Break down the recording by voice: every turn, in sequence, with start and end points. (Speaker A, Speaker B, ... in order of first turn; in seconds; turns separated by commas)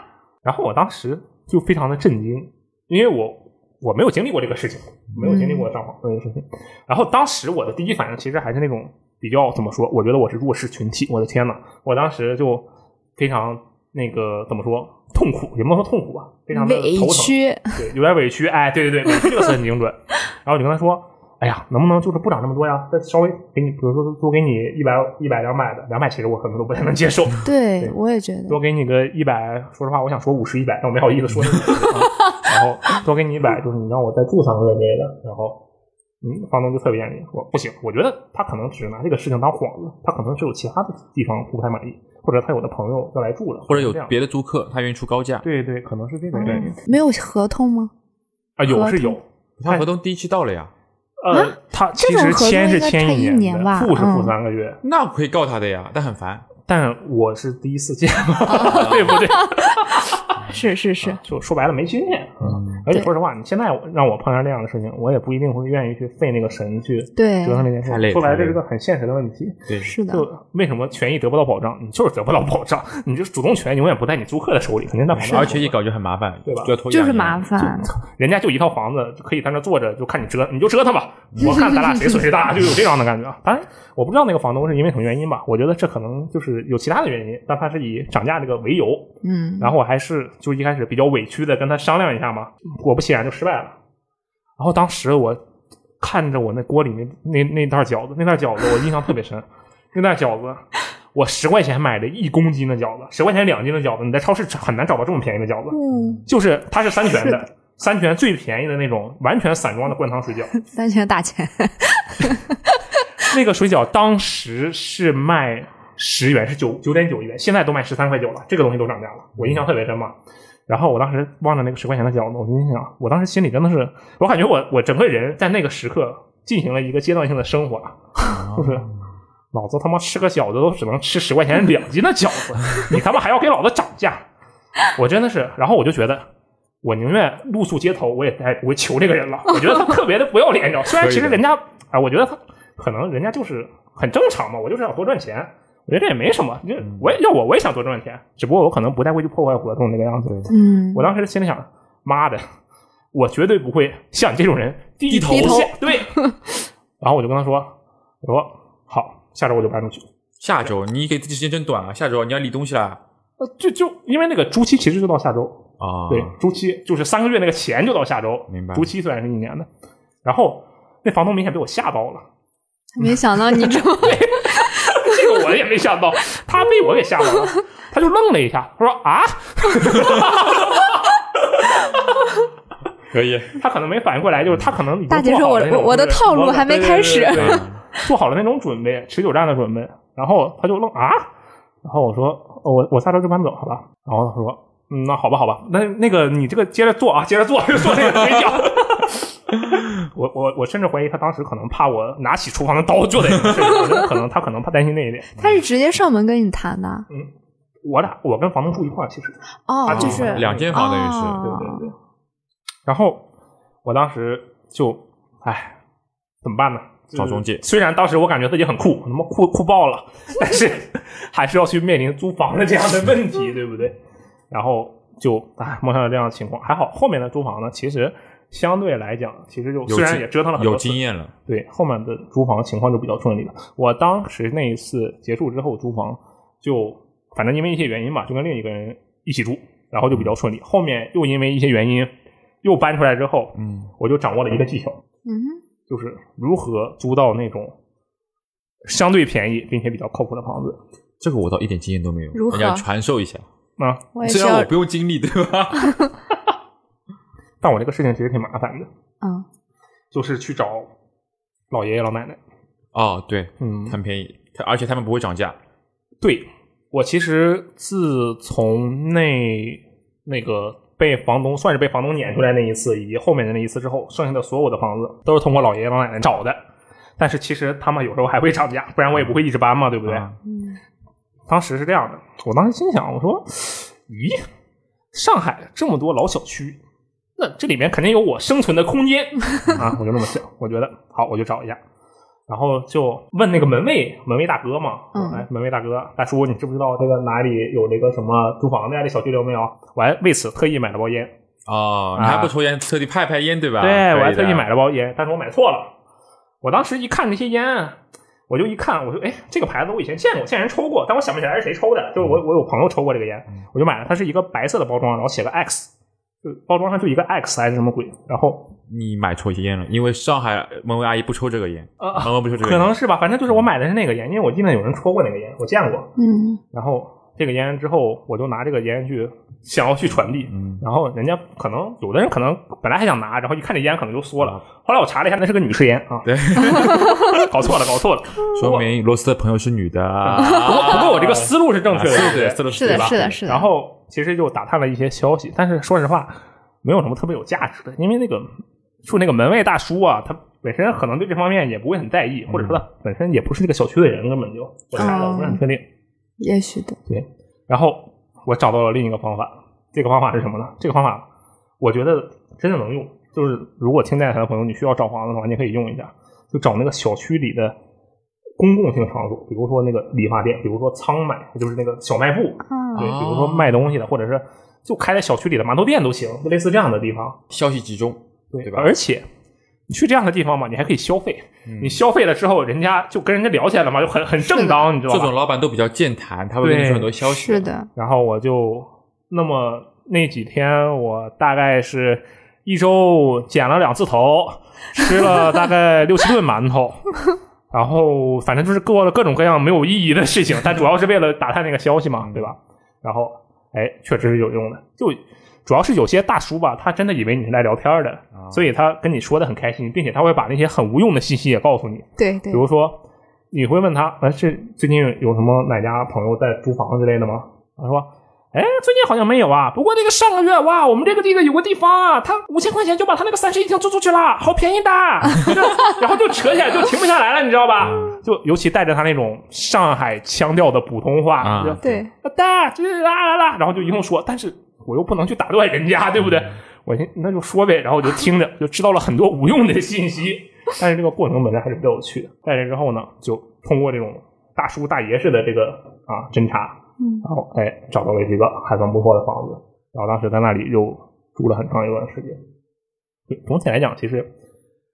Speaker A: 0.4-27.9, Speaker B: 5.2-5.7, Speaker B: 16.5-17.8, Speaker B: 27.4-28.6, Speaker A: 28.5-35.6, Speaker A: 36.2-44.1, Speaker C: 43.7-45.5, Speaker A: 45.4-46.8, Speaker B: 46.3-47.9, Speaker A: 48.6-49.9, Speaker B: 48.7-49.2, Speaker C: 49.6-50.7, Speaker A: 51.2-54.8, Speaker B: 51.3-54.3, Speaker C: 54.8-56.5, Speaker A: 56.7-60.3, Speaker B: 58.5-61.2, Speaker C: 58.6-59.2, Speaker A: 61.2-75.8, Speaker C: 62.4-62.8, Speaker B: 67.2-67.7, Speaker C: 67.8-68.6, Speaker C: 69.7-69.9, Speaker B: 69.8-70.3, Speaker C: 75.1-77.7, Speaker A: 76.5-76.8, Speaker B: 76.9-77.9, Speaker A: 77.8-93.8, Speaker B: 89.2-89.7, Speaker A: 94.6-95.4, Speaker A: 96.0-110.5, Speaker B: 105.7-106.2, Speaker C: 106.0-106.2, Speaker B: 107.1-107.4, Speaker B: 110.6-112.8, Speaker A: 113.2-120.2, Speaker C: 119.4-119.6, Speaker A: 120.7-128.9, Speaker C: 128.3-128.9, Speaker A: 129.5-134.2, Speaker A: 134.9-136.3, Speaker A: 136.8-152.4, Speaker C: 141.0-141.4, Speaker C: 146.8-147.1, Speaker B: 150.5-151.1, Speaker A: 153.1-156.2, Speaker C: 155.1-155.7, Speaker B: 155.1-156.4, Speaker A: 157.0-160.1, Speaker C: 160.4-163.0, Speaker A: 163.4-169.7, Speaker C: 165.8-166.3, Speaker C: 168.5-168.9, Speaker A: 170.2-172.2, Speaker B: 172.9-175.2, Speaker A: 173.0-182.3, Speaker C: 180.0-180.3, Speaker C: 183.1-183.6, Speaker A: 183.6-191.3, Speaker B: 185.1-188.0, Speaker C: 187.3-187.8, Speaker A: 191.8-205.3, Speaker B: 203.6-204.0, Speaker B: 205.4-207.1, Speaker A: 207.8-210.8, Speaker B: 209.7-211.9, Speaker C: 209.9-211.4, Speaker A: 211.4-211.9, Speaker A: 212.9-213.2, Speaker A: 213.8-215.8, Speaker A: 216.4-224.0, Speaker C: 217.2-217.6, Speaker A: 224.5-242.1, Speaker C: 229.9-231.3, Speaker A: 242.6-245.0, Speaker C: 243.6-243.9, Speaker B: 245.3-245.6, Speaker A: 245.9-247.8, Speaker A: 248.8-250.8, Speaker C: 251.2-253.4, Speaker B: 252.3-252.8, Speaker A: 253.8-254.1, Speaker B: 254.1-254.7, Speaker C: 254.2-256.1, Speaker A: 257.6-258.9, Speaker B: 259.2-259.5, Speaker A: 260.1-260.9, Speaker A: 261.7-262.4, Speaker C: 262.9-265.6, Speaker A: 263.6-264.0, Speaker A: 266.2-276.6, Speaker A: 277.2-280.3, Speaker C: 280.1-280.4, Speaker B: 280.4-280.8, Speaker A: 281.5-284.4, Speaker A: 285.1-286.8, Speaker A: 287.4-291.8, Speaker A: 292.5-301.3, Speaker B: 295.1-295.4, Speaker C: 301.7-304.7, Speaker A: 302.2-302.5, Speaker A: 303.8-305.9, Speaker A: 306.6-308.0, Speaker A: 308.5-315.9, Speaker A: 316.4-318.7, Speaker C: 318.9-322.9, Speaker A: 322.0-326.1, Speaker B: 326.2-326.6, Speaker A: 326.7-338.9, Speaker C: 330.5-330.8, Speaker C: 336.2-337.3, Speaker B: 336.7-337.2, Speaker C: 338.5-343.4, Speaker A: 340.2-348.5, Speaker B: 340.4-340.9, Speaker B: 342.7-343.7, Speaker A: 349.0-355.9, Speaker C: 352.5-352.8, Speaker B: 354.9-355.6, Speaker B: 356.4-357.0, Speaker A: 357.1-361.3, Speaker A: 361.8-367.8, Speaker A: 368.6-377.4, Speaker B: 372.7-373.1, Speaker C: 373.0-373.9, Speaker C: 377.5-378.9, Speaker A: 378.5-379.3, Speaker A: 379.9-385.3, Speaker C: 381.7-382.0, Speaker B: 384.4-384.9, Speaker C: 385.1-387.7, Speaker A: 386.6-387.1, Speaker B: 387.3-387.9, Speaker A: 387.9-397.1, Speaker A: 397.7-452.4, Speaker C: 402.2-402.5, Speaker C: 408.4-408.6, Speaker B: 412.2-412.6, Speaker C: 427.8-428.2, Speaker C: 431.4-432.0, Speaker B: 431.8-432.1, Speaker B: 447.0-447.2, Speaker A: 453.3-454.3